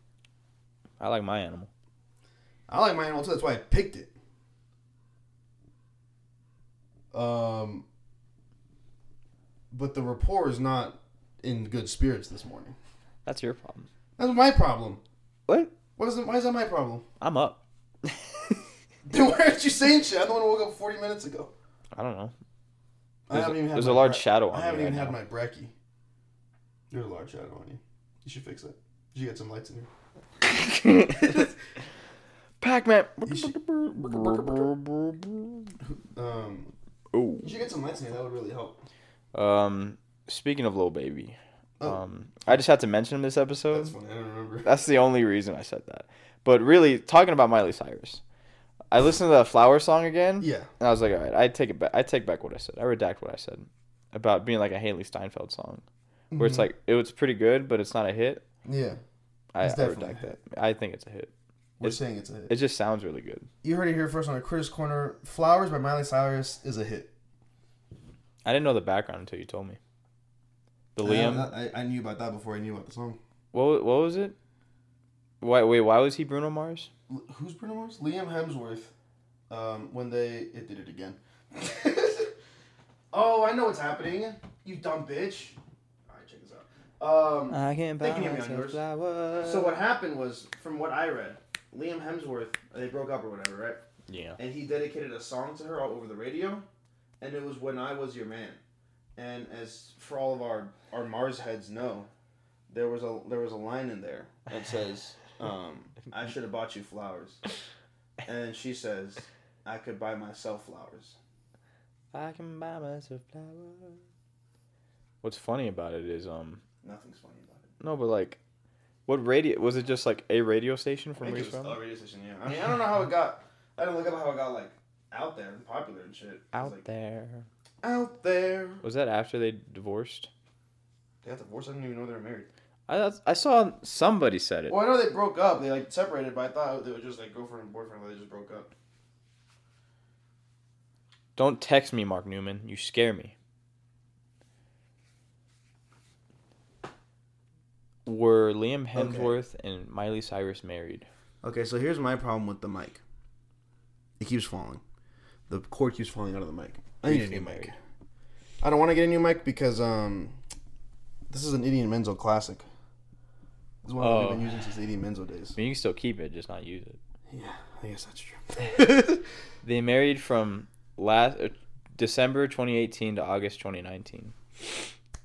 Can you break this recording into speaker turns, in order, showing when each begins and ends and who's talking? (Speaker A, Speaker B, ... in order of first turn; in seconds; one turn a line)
Speaker A: 1.0-1.7
Speaker B: 2.7-4.1
Speaker B: 7.1-7.8
Speaker B: 9.7-12.7
Speaker A: 13.2-13.9
Speaker B: 14.2-15.0
Speaker A: 15.5-15.7
Speaker B: 16.0-17.0
Speaker A: 17.2-18.6
Speaker B: 19.1-21.5
Speaker A: 21.9-22.3
Speaker B: 23.3-25.7
Speaker A: 23.3-25.2
Speaker B: 26.9-29.9
Speaker A: 30.4-31.5
Speaker A: 32.6-35.7
Speaker B: 33.2-34.7
Speaker B: 35.8-36.7
Speaker A: 37.1-37.5
Speaker B: 37.4-38.8
Speaker A: 39.3-43.9
Speaker B: 41.8-42.5
Speaker B: 43.7-44.7
Speaker A: 44.6-48.2
Speaker A: 48.9-55.8
Speaker B: 50.4-50.7
Speaker B: 56.3-56.7
Speaker A: 56.4-58.4
Speaker B: 58.6-59.0
Speaker A: 59.5-63.5
Speaker B: 59.6-60.4
Speaker B: 61.8-62.5
Speaker B: 63.6-67.1
Speaker A: 68.4-69.8
Speaker A: 70.9-71.5
Speaker B: 71.0-73.2
Speaker A: 73.5-74.3
Speaker A: 75.4-76.9
Speaker B: 77.1-78.9
Speaker B: 79.5-82.3
Speaker B: 83.1-85.6
Speaker B: 86.1-88.8
Speaker A: 87.5-89.8
Speaker B: 89.4-93.8
Speaker A: 94.1-94.4
Speaker B: 94.4-96.6
Speaker B: 97.2-98.6
Speaker B: 99.2-102.1
Speaker B: 102.7-107.4
Speaker B: 108.2-111.2
Speaker A: 112.1-114.0
Speaker A: 115.2-116.6
Speaker B: 116.8-117.7
Speaker A: 117.8-118.4
Speaker A: 119.0-121.8
Speaker B: 121.2-126.8
Speaker A: 126.5-127.5
Speaker B: 127.8-128.8
Speaker A: 128.8-130.3
Speaker B: 131.2-132.5
Speaker A: 132.9-134.8
Speaker B: 134.7-138.7
Speaker A: 141.3-143.3
Speaker A: 148.0-151.1
Speaker B: 148.9-149.3
Speaker B: 151.4-153.0
Speaker B: 154.2-154.8
Speaker B: 155.5-157.8
Speaker A: 157.0-157.7
Speaker B: 158.6-160.3
Speaker B: 161.3-162.6
Speaker B: 163.8-165.6
Speaker A: 164.0-164.5
Speaker A: 165.6-167.0
Speaker B: 167.3-169.2
Speaker A: 169.6-174.3